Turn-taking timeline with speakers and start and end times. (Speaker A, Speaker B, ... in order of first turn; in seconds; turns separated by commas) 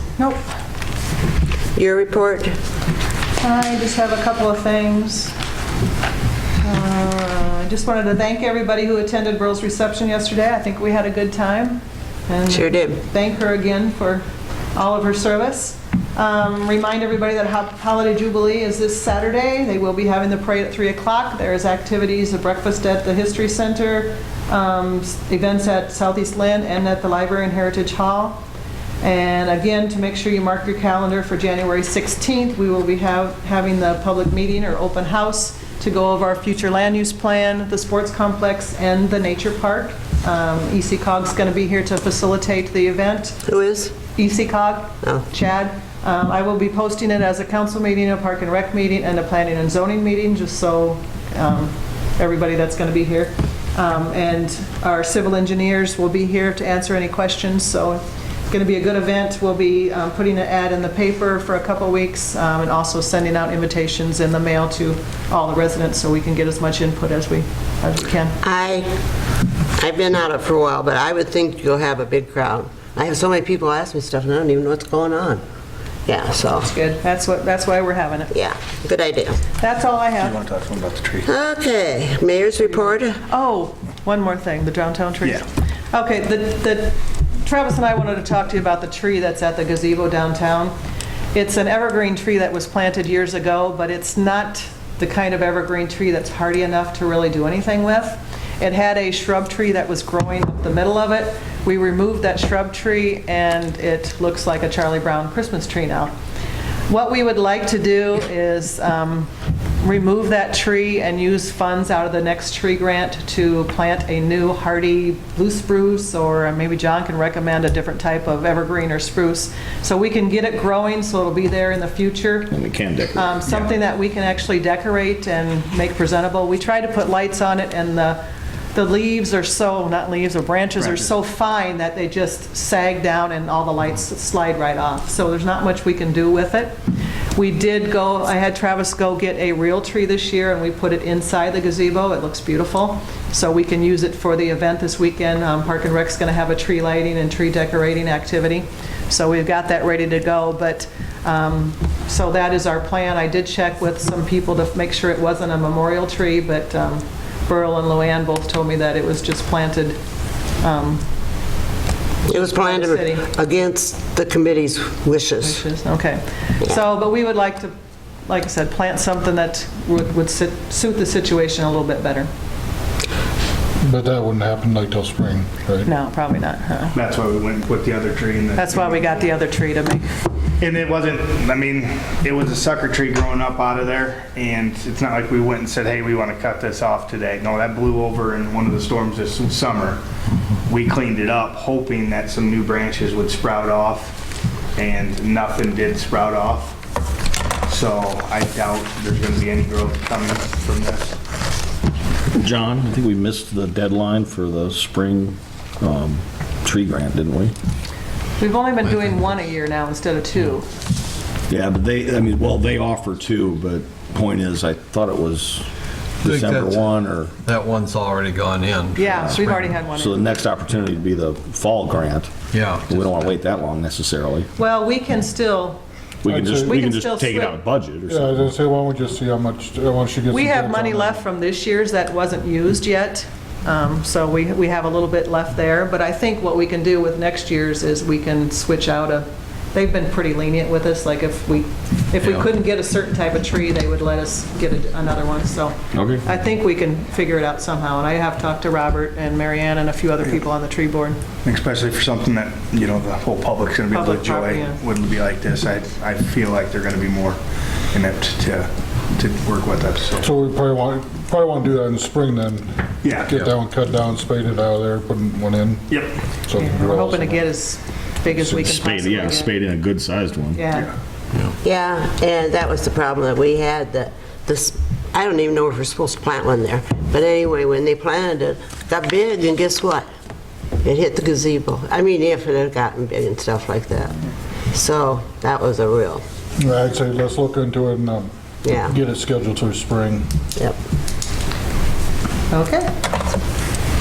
Speaker A: 1.8-2.6, Speaker B: 3.4-5.3, Speaker B: 6.6-28.4, Speaker A: 12.5-13.0, Speaker B: 29.0-43.4, Speaker A: 43.5-44.0, Speaker B: 44.1-68.4, Speaker A: 68.4-69.0, Speaker A: 69.8-75.4, Speaker A: 76.1-76.7, Speaker B: 76.6-78.3, Speaker A: 78.3-79.4, Speaker B: 79.6-80.4, Speaker C: 80.2-81.3, Speaker A: 81.2-83.2, Speaker B: 83.2-90.7, Speaker B: 91.3-106.1, Speaker B: 106.9-122.6, Speaker D: 122.5-123.4, Speaker B: 123.1-128.2, Speaker B: 128.7-136.8, Speaker C: 130.8-131.1, Speaker B: 137.3-160.0, Speaker B: 160.6-161.0, Speaker A: 162.3-165.6, Speaker B: 162.3-163.3, Speaker B: 165.4-167.7, Speaker B: 168.3-172.3, Speaker E: 173.8-175.9, Speaker B: 175.8-177.0, Speaker C: 176.9-179.0, Speaker B: 178.6-180.1, Speaker C: 180.6-190.0, Speaker C: 190.7-194.2, Speaker C: 194.8-196.8, Speaker C: 197.7-201.2, Speaker D: 202.3-207.5, Speaker B: 208.4-210.7, Speaker D: 211.5-215.7, Speaker D: 216.2-217.3, Speaker F: 216.2-216.8, Speaker F: 217.4-219.7, Speaker B: 218.9-220.3, Speaker D: 219.2-222.3, Speaker F: 222.5-222.9, Speaker D: 222.9-224.5, Speaker B: 224.6-225.8, Speaker D: 226.2-228.5, Speaker E: 226.3-226.8, Speaker B: 226.6-227.6, Speaker E: 228.1-231.1, Speaker B: 230.3-251.2, Speaker D: 245.9-246.2, Speaker C: 251.4-257.4, Speaker B: 253.9-254.8, Speaker C: 257.9-260.3, Speaker E: 260.2-267.4, Speaker C: 263.0-263.3, Speaker C: 265.9-266.1, Speaker B: 266.5-269.5, Speaker D: 268.3-270.6, Speaker B: 270.5-270.9, Speaker A: 271.6-280.1, Speaker A: 280.8-286.2, Speaker E: 286.6-290.3, Speaker A: 288.6-288.9, Speaker B: 292.5-292.9